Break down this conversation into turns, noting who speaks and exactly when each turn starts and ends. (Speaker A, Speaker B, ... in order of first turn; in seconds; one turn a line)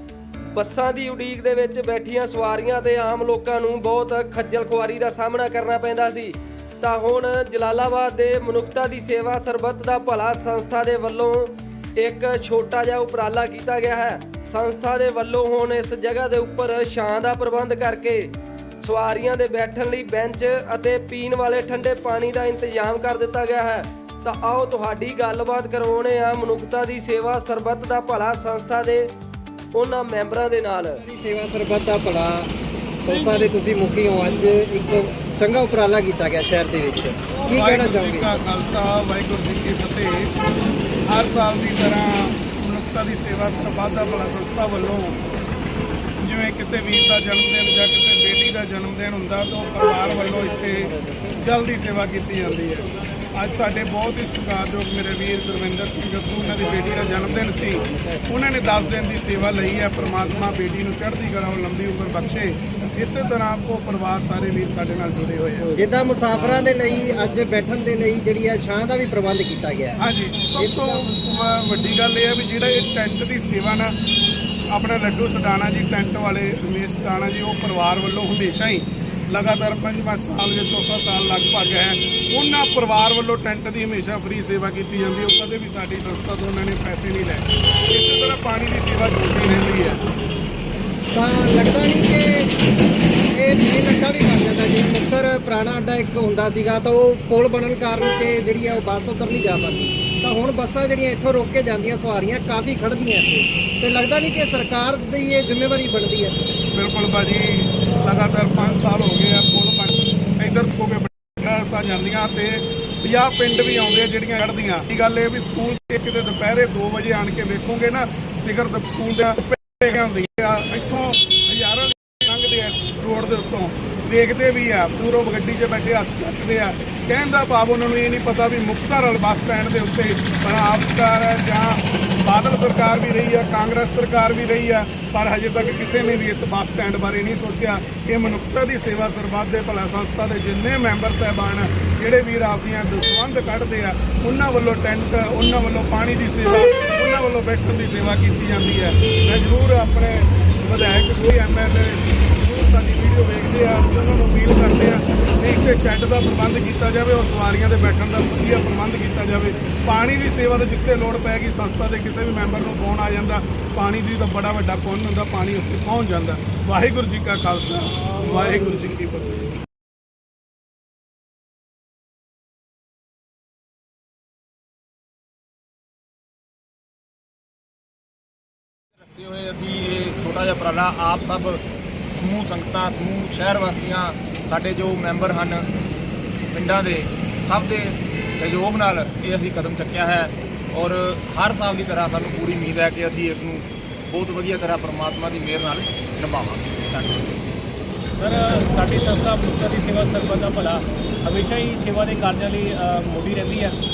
Speaker A: 0.5-29.1
Speaker A: 29.7-31.0
Speaker B: 31.0-32.5
Speaker B: 33.0-38.3
Speaker C: 37.4-40.3
Speaker C: 41.1-45.2
Speaker C: 46.2-65.7
Speaker B: 65.7-70.0
Speaker C: 70.0-73.9
Speaker B: 70.6-71.0
Speaker C: 74.7-90.0
Speaker B: 91.1-92.5
Speaker B: 93.3-106.3
Speaker C: 106.7-169.4
Speaker D: 179.0-185.7
Speaker D: 186.5-197.4
Speaker E: 198.2-203.8